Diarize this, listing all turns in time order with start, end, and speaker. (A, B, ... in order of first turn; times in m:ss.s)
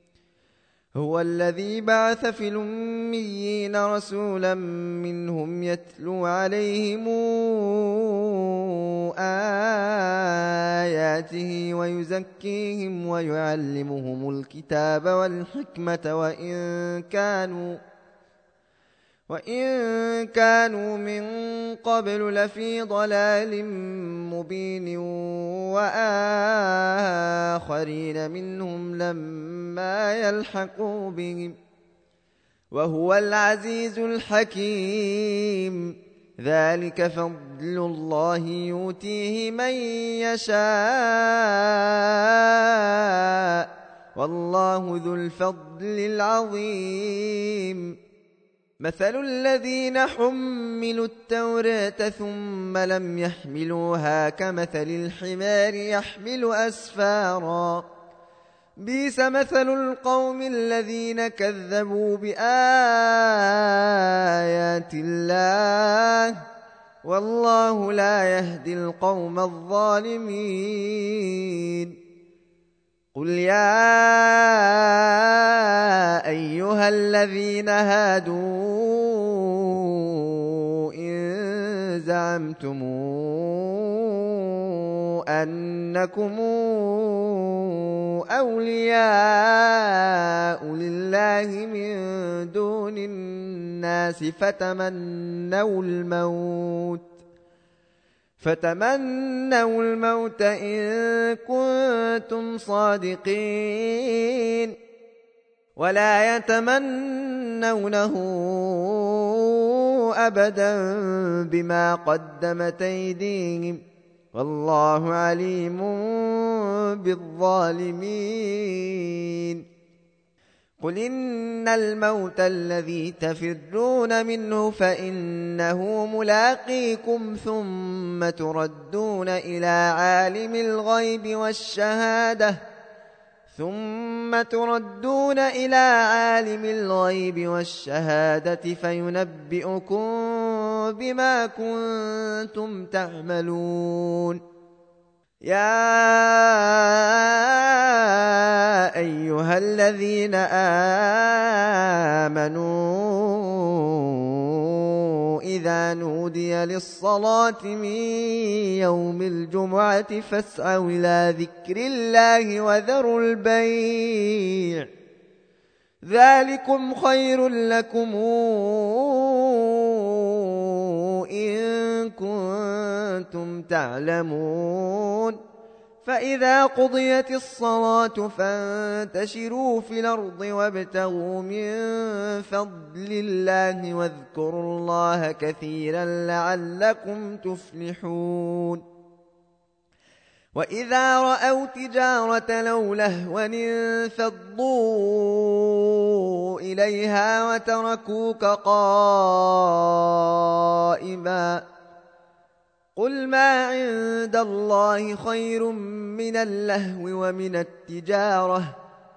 0:01.0-0:17.8 A
0:19.3-0:31.6 A
0:32.7-0:48.0 A
0:48.8-0:57.9 A
0:58.8-1:06.4 A
1:07.0-1:12.0 A
1:13.1-1:37.1 A
1:38.4-1:44.7 A
1:45.8-1:53.8 A
1:54.3-1:59.6 A
2:00.8-2:12.6 A
2:13.5-2:24.4 A
2:25.4-2:44.9 A
2:46.0-2:55.4 A
2:56.0-3:08.8 A
3:10.5-3:21.6 A
3:23.0-3:28.7 A